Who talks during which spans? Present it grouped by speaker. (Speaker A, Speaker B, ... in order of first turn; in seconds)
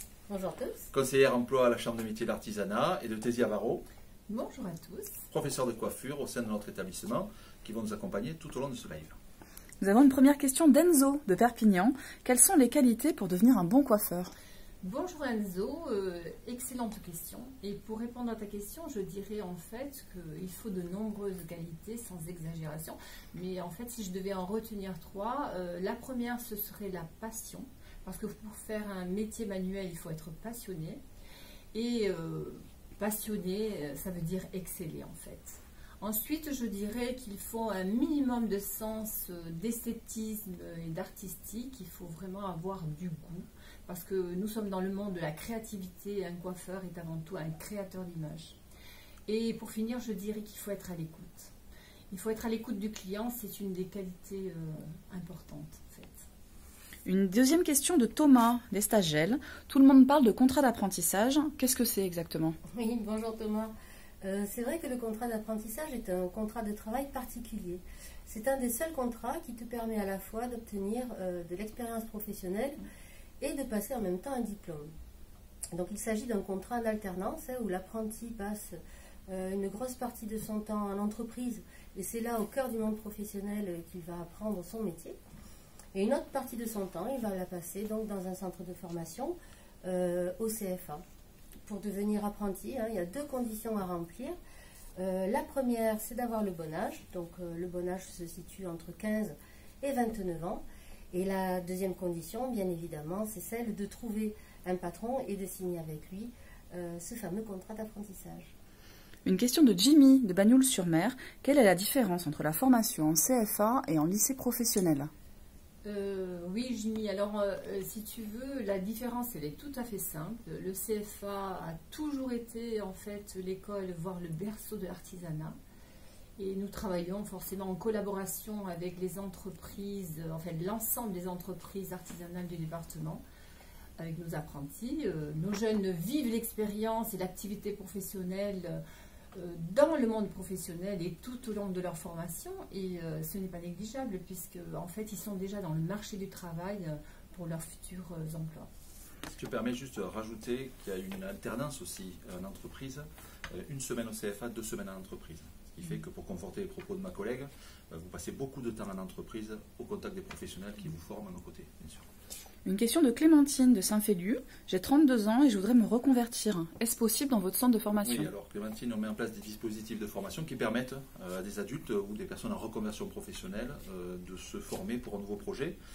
Speaker A: 0.3-0.8, 62.7-72.8, 73.4-74.9, 75.7-85.2, 85.9-91.0, 91.7-94.3, 95.0-108.5
Speaker B: 0.9-3.8, 5.3-9.2, 149.3-162.1, 168.0-175.8
Speaker C: 4.3-5.2, 14.8-31.0, 31.7-48.6, 49.3-51.5, 52.1-56.2, 115.8-125.6, 126.4-133.2, 134.0-138.8, 139.3-148.7
Speaker D: 9.8-14.3, 57.0-62.5, 109.2-115.1, 162.6-168.3